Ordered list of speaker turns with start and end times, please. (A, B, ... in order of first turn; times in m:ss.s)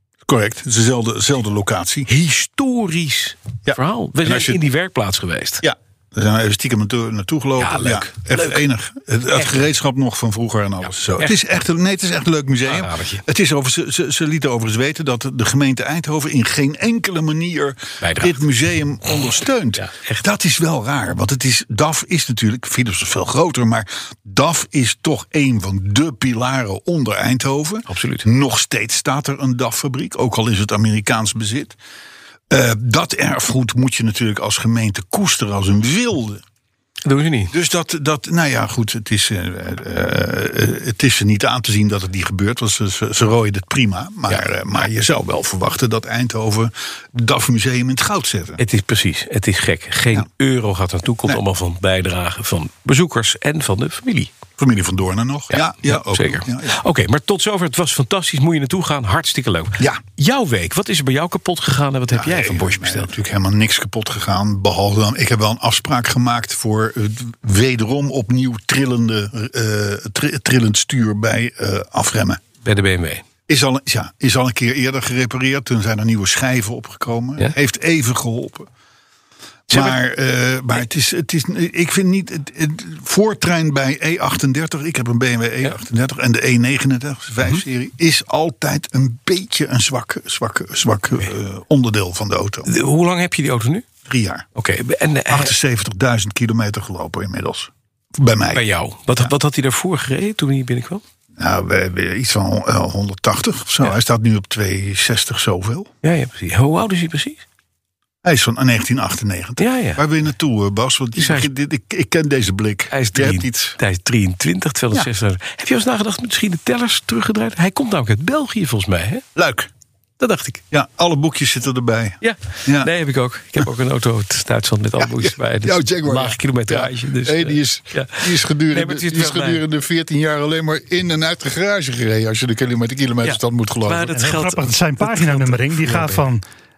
0:00.2-0:02.1 A
0:02.1-0:05.6 B
0:03.6-0:04.6 A
0:05.6-0:31.8 A
0:07.6-0:08.6 B
0:09.3-0:09.7 B
0:12.6-0:13.2 B
0:18.0-0:18.4 B
0:19.8-0:20.2 B
0:27.9-0:28.3 B
0:32.5-0:36.4 A
0:37.0-0:37.5 B
0:37.5-0:48.6 A
0:48.6-0:54.3 B
0:54.6-0:56.8 A
0:55.5-1:03.2 B
1:02.1-1:12.4 A
1:12.6-1:13.2 B
1:13.5-1:18.7 A
1:19.7-1:32.7 A
1:19.7-1:20.0 B
1:32.6-1:33.8 B
1:34.0-1:34.5 A
1:34.6-1:35.5 B
1:35.3-1:38.6 A
1:38.5-1:41.0 B
1:41.4-1:45.9 A
1:46.0-1:47.4 B
1:48.2-1:53.8 A
1:49.6-1:50.0 B
1:51.2-1:51.5 B
1:52.9-1:59.2 B
1:59.3-1:59.7 A
2:00.2-2:00.6 B
2:00.7-2:02.9 A
2:02.2-2:09.6 B
2:05.0-2:14.1 A
2:13.2-2:16.2 B
2:14.1-2:16.4 C